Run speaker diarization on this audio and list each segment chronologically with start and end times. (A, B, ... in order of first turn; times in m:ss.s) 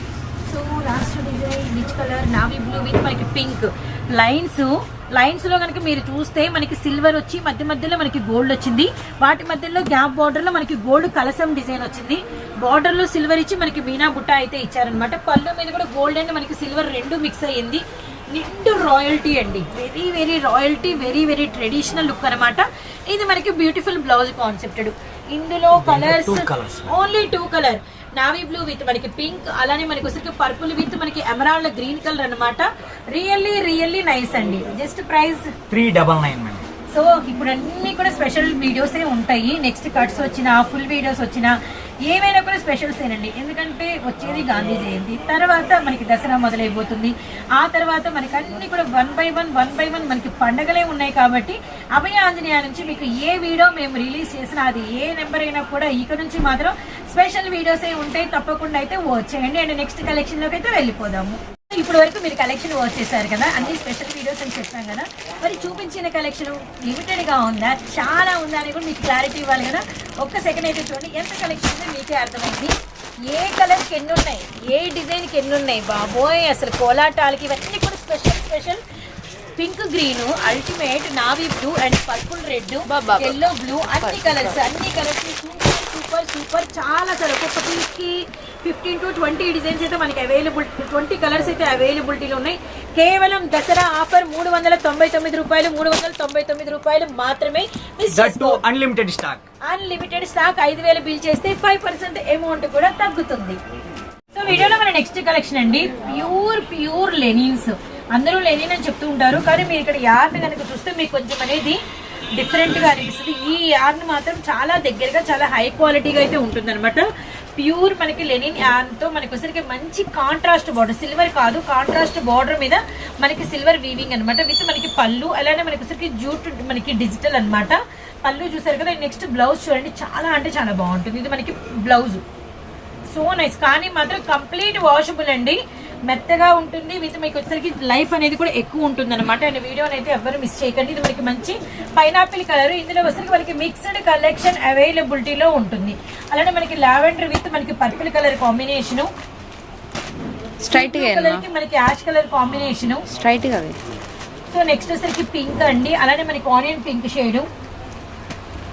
0:00.4-0:35.5 A
0:25.8-0:26.9 B
0:35.7-0:36.6 B
0:36.9-1:12.7 A
1:13.3-1:18.8 A
1:19.6-1:38.6 A
1:22.9-1:24.6 C
1:38.1-1:39.4 B
1:39.6-1:43.6 A
1:44.3-1:51.8 A
1:52.4-2:12.2 A
2:13.1-2:29.1 A
2:30.6-2:31.4 C
2:30.7-2:33.0 A
2:33.1-2:33.8 C
2:34.5-2:37.5 A